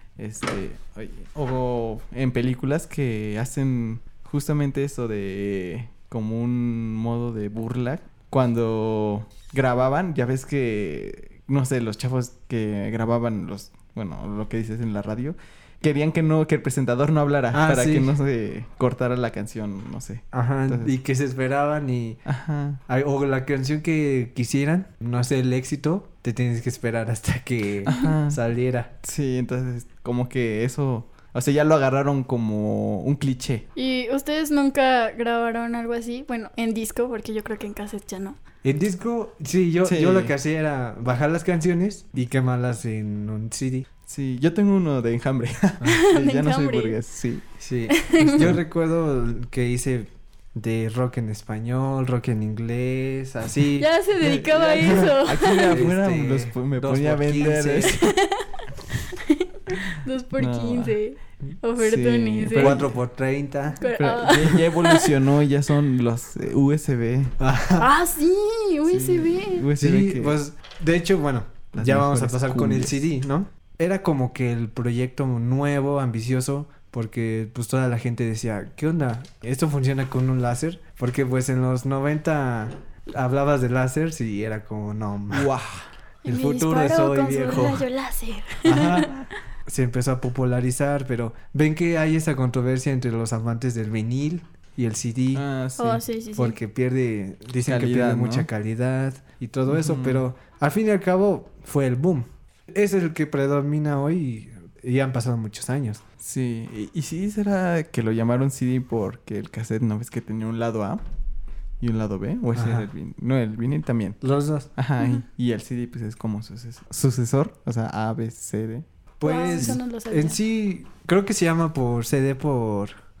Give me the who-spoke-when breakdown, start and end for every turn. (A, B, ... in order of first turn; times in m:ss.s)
0:00.2-0:20.9 A
0:17.5-0:18.1 B
0:20.3-0:22.2 B
0:22.2-0:22.8 A
0:22.9-0:28.9 B
0:27.8-0:28.4 A
0:29.0-0:33.7 A
0:33.8-0:38.4 C
0:38.6-0:43.9 B
0:39.8-0:40.3 A
0:44.1-0:47.6 A
0:45.8-0:47.0 C
0:47.6-0:53.9 B
0:47.9-0:48.5 C
0:48.2-0:48.6 A
0:53.8-0:55.8 C
0:54.2-0:58.1 A
0:55.6-0:58.0 B
0:57.9-1:02.8 C
1:00.4-1:01.0 A
1:01.8-1:02.9 A
1:02.5-1:03.9 B
1:03.8-1:05.1 C
1:04.0-1:07.4 A
1:07.4-1:07.9 B
1:07.8-1:09.7 C
1:08.9-1:10.4 A
1:09.8-1:25.5 B
1:11.7-1:13.0 A
1:25.3-1:25.9 A
1:26.2-1:29.1 C
1:26.2-1:27.8 B
1:28.6-1:29.1 B
1:29.6-1:35.4 B
1:35.3-1:36.0 A
1:35.8-1:36.6 C
1:36.4-1:46.0 B
1:37.6-1:38.5 A
1:39.7-1:40.2 A
1:46.2-1:51.0 A
1:51.8-1:54.2 A
1:52.5-1:52.9 B
1:54.2-1:54.7 B
1:54.8-1:58.8 A
1:59.2-2:02.9 B
1:59.2-2:00.4 C
1:59.5-1:59.8 A